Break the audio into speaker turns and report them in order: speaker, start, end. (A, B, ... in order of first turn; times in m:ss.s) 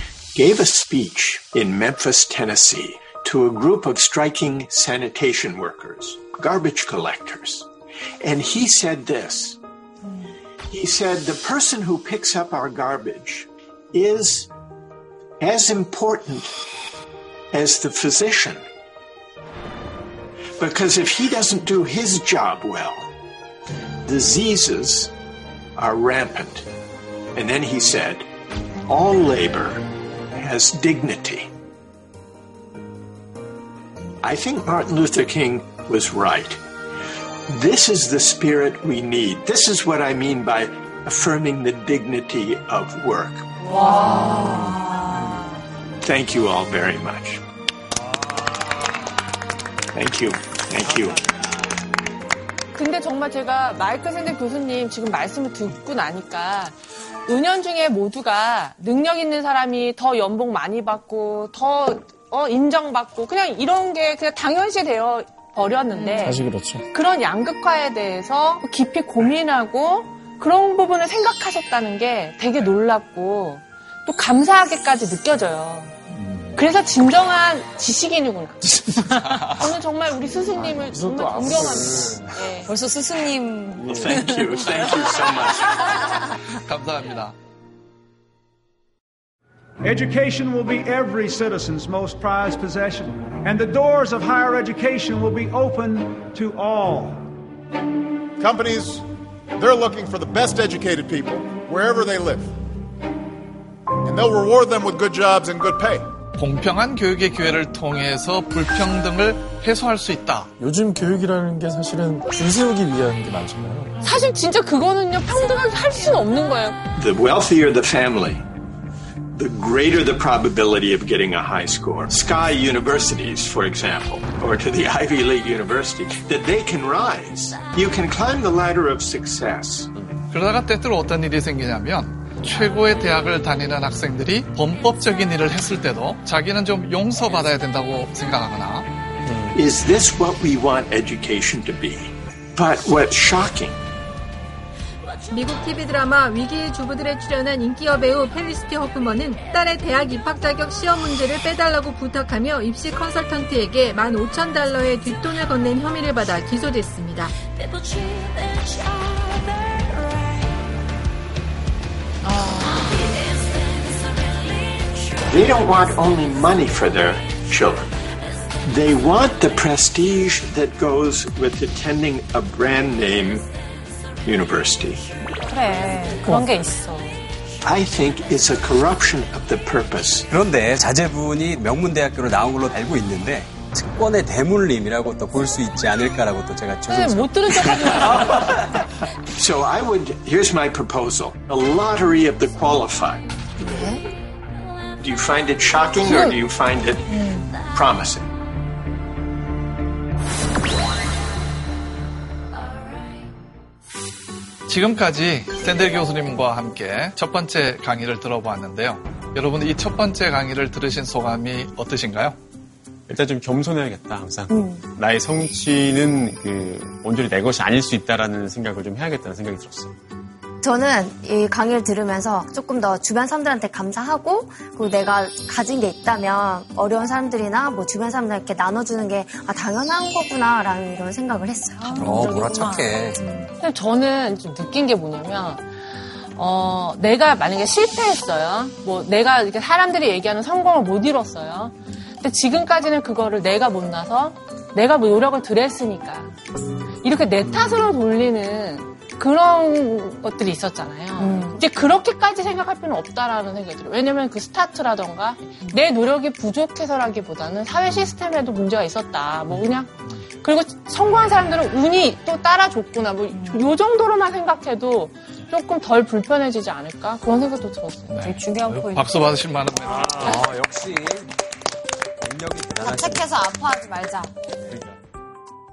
0:00.4-0:07.7 A
0:08.2-0:09.6 A
0:10.7-0:14.5 A
0:15.4-0:16.5 A
0:17.5-0:18.6 A
0:20.6-0:23.1 A
0:24.0-0:25.1 A
0:25.8-0:26.6 A
0:27.4-0:28.3 A
0:28.9-0:31.5 A
0:34.2-0:36.6 A
0:37.5-0:43.5 A
0:43.6-0:45.4 B
0:43.8-0:44.6 C
0:46.0-0:47.4 A
0:49.9-0:51.2 A
0:52.7-1:06.4 C
1:06.2-1:06.8 D
1:06.9-1:16.0 C
1:16.1-1:16.6 D
1:16.6-1:18.8 C
1:19.1-1:19.7 E
1:19.4-1:22.7 C
1:20.5-1:22.4 D
1:22.6-1:24.7 B
1:23.8-1:25.9 A
1:26.5-1:27.4 E
1:29.8-1:37.2 F
1:38.4-1:42.5 G
1:44.0-1:46.1 G
1:46.4-1:50.5 E
1:50.6-1:53.9 D
1:54.0-1:56.8 C
1:57.0-1:58.4 A
1:59.3-2:09.9 A
2:10.3-2:18.9 E
2:19.5-2:23.8 A
2:25.3-2:37.3 H
2:42.3-2:43.2 C
2:45.3-2:47.9 A
2:48.6-2:53.5 A
2:54.2-2:55.0 A
2:55.4-2:57.2 I
2:57.6-3:00.3 A
3:00.3-3:07.5 J
3:06.9-3:08.5 C
3:09.4-3:13.3 A
3:15.0-3:18.3 A
3:17.1-3:17.6 C
3:24.7-3:32.4 E
3:33.1-3:39.9 K
3:34.5-3:34.9 B
3:40.6-3:52.1 L
3:52.0-3:52.7 B
3:52.0-3:53.2 J
3:52.1-3:52.9 I
3:53.6-3:55.7 C
3:56.4-4:06.3 C
4:07.0-4:28.2 C
4:11.2-4:11.6 B
4:28.1-4:30.3 E
4:28.2-4:29.1 I
4:30.2-4:31.3 J
4:32.2-4:33.4 J
4:32.8-4:34.3 B